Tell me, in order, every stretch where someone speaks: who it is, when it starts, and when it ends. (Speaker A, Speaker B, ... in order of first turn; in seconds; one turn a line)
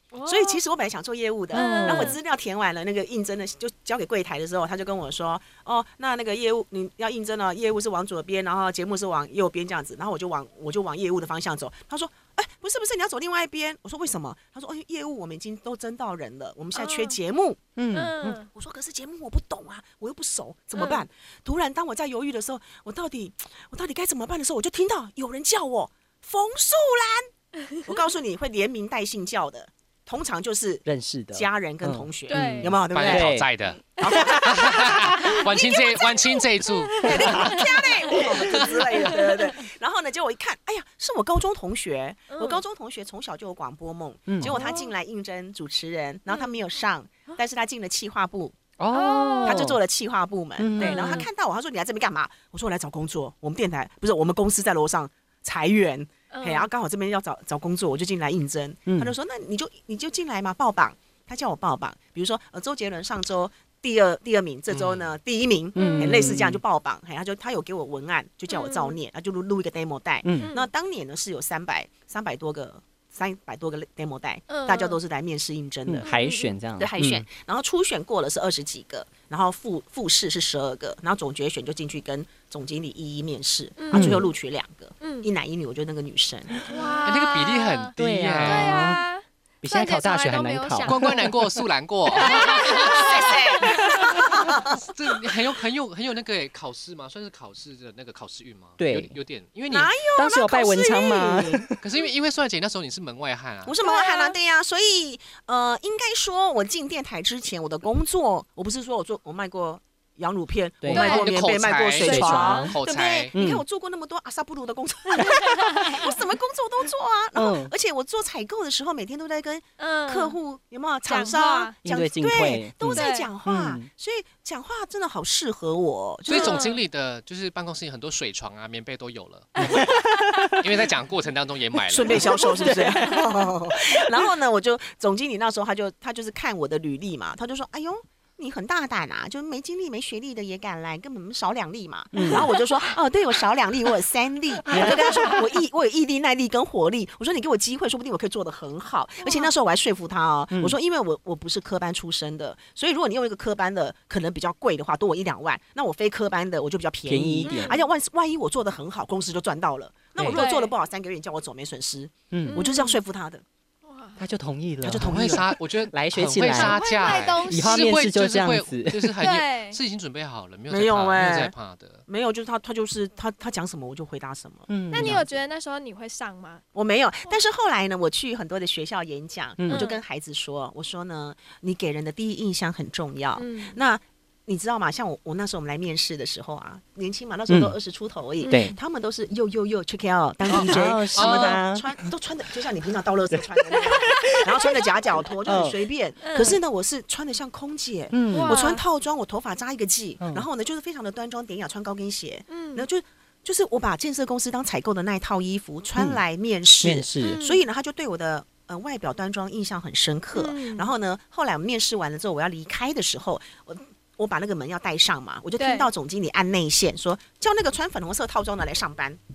Speaker A: 0.1-0.6
Speaker B: 0.2-17.6
Speaker A: 1.5-2.2
Speaker C: 1.6-2.1
Speaker A: 16.7-17.2
Speaker C: 17.8-18.4
Speaker A: 17.9-18.5
Speaker B: 18.5-33.4
Speaker A: 20.7-21.0
Speaker C: 30.8-33.5
Speaker A: 32.3-32.7
Speaker D: 32.9-33.8
Speaker B: 34.0-36.4
Speaker D: 34.4-37.6
Speaker A: 36.7-39.4
Speaker B: 36.9-48.6
Speaker C: 37.1-38.6
Speaker A: 42.3-42.6
Speaker C: 44.3-44.5
Speaker A: 44.4-44.9
Speaker A: 46.3-46.5
Speaker C: 48.8-49.8
Speaker A: 48.9-49.7
Speaker B: 49.4-76.1
Speaker C: 50.6-51.3
Speaker A: 50.8-51.3
Speaker A: 56.3-56.7
Speaker C: 58.9-59.1
Speaker D: 64.7-65.1
Speaker C: 65.8-66.6
Speaker A: 65.8-66.3
Speaker A: 68.5-69.0
Speaker C: 70.2-70.5
Speaker A: 70.4-70.7
Speaker A: 74.5-75.0
Speaker C: 75.9-77.2
Speaker A: 76.0-76.5
Speaker B: 76.8-86.6
Speaker A: 83.8-84.3
Speaker C: 83.9-84.2
Speaker A: 85.0-85.3
Speaker A: 86.7-91.4
Speaker D: 87.0-88.9
Speaker C: 88.0-89.0
Speaker C: 89.6-91.3
Speaker D: 90.8-93.7
Speaker A: 92.1-94.5
Speaker B: 92.6-94.9
Speaker D: 94.7-99.9
Speaker C: 98.8-99.1
Speaker B: 99.7-101.7
Speaker C: 100.2-101.8
Speaker D: 101.8-103.7
Speaker B: 103.6-126.6
Speaker A: 103.8-104.3
Speaker C: 110.8-111.2
Speaker A: 110.9-111.3
Speaker D: 111.0-113.3
Speaker C: 112.0-112.8
Speaker A: 112.1-112.7
Speaker C: 113.3-113.6
Speaker A: 115.1-116.2
Speaker C: 117.3-117.7
Speaker A: 119.8-120.4
Speaker A: 121.1-121.7
Speaker C: 121.8-123.9
Speaker A: 122.9-123.3
Speaker D: 126.3-132.5
Speaker A: 126.3-126.8
Speaker A: 129.6-130.6
Speaker C: 129.7-130.6
Speaker B: 131.9-163.4
Speaker C: 132.1-134.2
Speaker C: 142.1-142.5
Speaker C: 144.7-145.5
Speaker A: 149.2-149.5
Speaker C: 150.5-150.8
Speaker C: 157.1-157.8
Speaker A: 157.4-157.8
Speaker C: 160.2-160.4
Speaker A: 160.3-160.7
Speaker C: 162.3-162.6
Speaker A: 162.5-163.0
Speaker A: 163.8-164.2
Speaker C: 164.2-169.2
Speaker B: 164.8-165.5
Speaker D: 165.0-172.0
Speaker A: 166.5-168.0
Speaker A: 169.2-169.8
Speaker B: 170.7-171.5
Speaker B: 172.1-175.4
Speaker C: 174.7-175.2
Speaker A: 174.9-176.6
Speaker B: 176.7-219.2
Speaker C: 179.6-179.9
Speaker A: 179.7-180.0
Speaker A: 183.4-183.8
Speaker C: 187.5-187.7
Speaker A: 188.4-188.7
Speaker C: 188.4-188.8
Speaker C: 190.5-192.1
Speaker D: 191.1-191.6
Speaker C: 193.3-195.8
Speaker A: 196.2-196.6
Speaker C: 198.1-198.6
Speaker A: 198.3-198.8
Speaker C: 200.2-200.4
Speaker A: 202.5-202.8
Speaker C: 206.8-207.4
Speaker A: 207.2-207.6
Speaker A: 210.3-210.9
Speaker A: 215.6-215.9